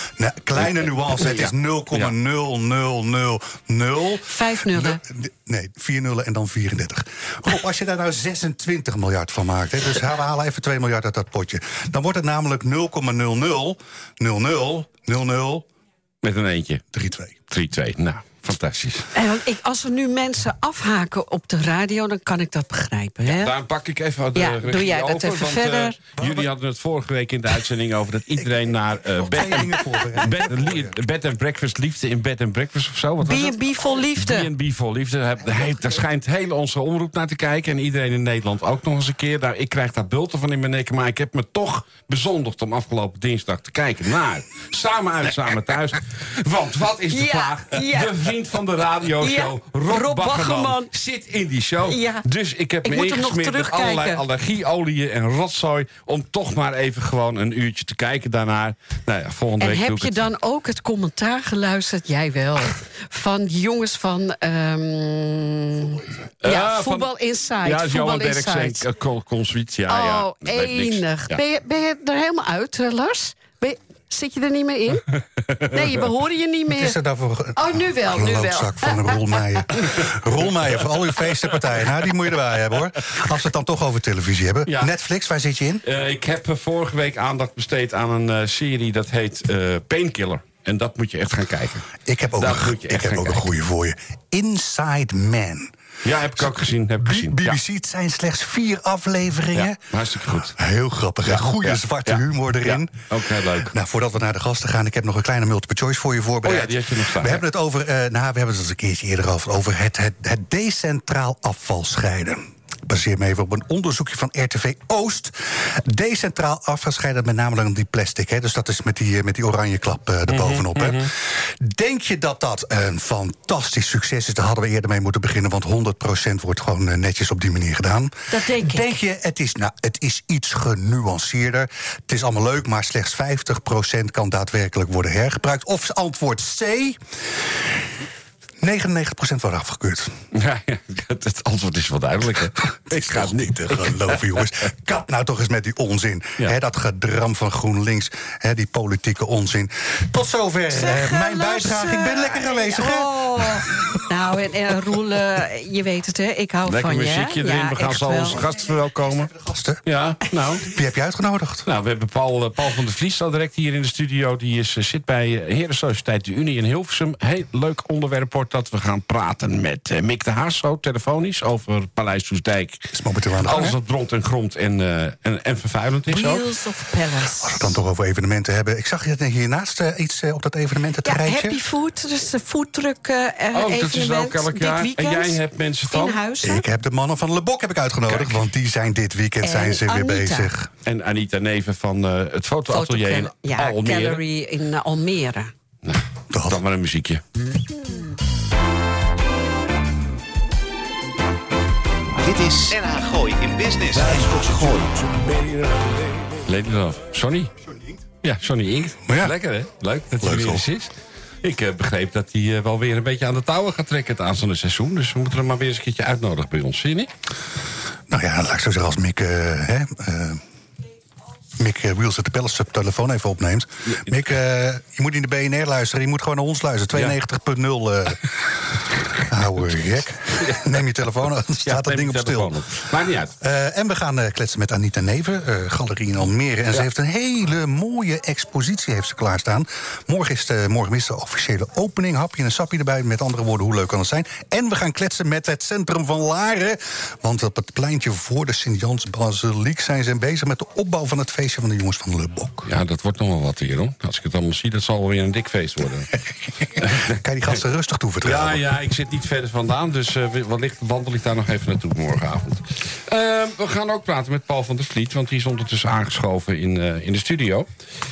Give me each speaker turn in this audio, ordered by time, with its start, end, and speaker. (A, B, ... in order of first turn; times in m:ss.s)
0:00.2-0:15.6 A
0:00.6-0:02.1 B
0:04.2-0:05.0 C
0:16.2-0:16.8 B
0:16.9-0:17.4 A
0:17.5-0:19.1 B
0:19.1-0:23.5 C
0:23.2-1:00.3 B
0:24.3-0:26.0 C
0:26.2-0:26.5 A
0:28.4-0:31.0 A
0:33.2-0:34.5 C
0:47.1-0:48.1 C
0:49.2-0:50.9 C
0:51.8-0:52.2 C
0:52.8-0:54.2 C
0:59.6-1:08.8 C
1:05.8-1:06.2 A
1:06.4-1:11.4 B
1:09.9-1:15.1 C
1:15.4-1:16.0 B
1:15.7-1:17.0 C
1:16.7-1:25.8 A
1:17.6-1:20.1 C
1:21.1-1:22.0 B
1:24.6-1:24.9 B
1:25.8-1:33.5 B
1:32.0-1:35.7 A
1:36.0-1:37.6 B
1:36.4-2:17.8 A
1:39.5-1:40.6 B
1:41.2-1:43.7 B
1:46.4-1:47.4 B
2:00.3-2:01.1 B
2:08.3-2:08.9 C
2:18.6-2:20.2 A
2:20.3-2:24.5 B
2:22.9-2:33.8 A
2:30.7-2:38.4 C
2:36.6-2:39.3 B
2:39.2-2:39.8 A
2:39.8-2:40.7 B
2:40.6-2:41.7 A
2:41.6-2:56.5 B
2:52.9-2:53.8 A
2:56.1-2:57.8 C
2:57.2-3:01.6 A
3:01.0-3:06.6 C
3:03.5-3:06.2 B
3:06.4-3:10.7 A
3:08.1-3:08.5 B
3:09.4-3:10.5 C
3:10.8-3:14.2 B
3:12.7-3:15.5 C
3:15.8-3:17.2 B
3:16.3-3:16.6 A
3:17.7-3:18.0 C
3:22.2-3:24.7 D
3:26.4-3:27.5 B
3:28.2-3:37.1 B
3:29.1-3:29.3 A
3:30.2-3:30.6 A
3:38.1-3:40.4 A
3:41.6-3:52.8 A
3:43.8-3:44.3 B
3:50.4-3:50.8 B
3:51.6-3:53.4 B
3:53.4-4:12.7 A
4:12.6-4:16.1 B
4:16.7-4:18.6 A
4:16.8-4:17.1 B
4:18.2-4:27.7 B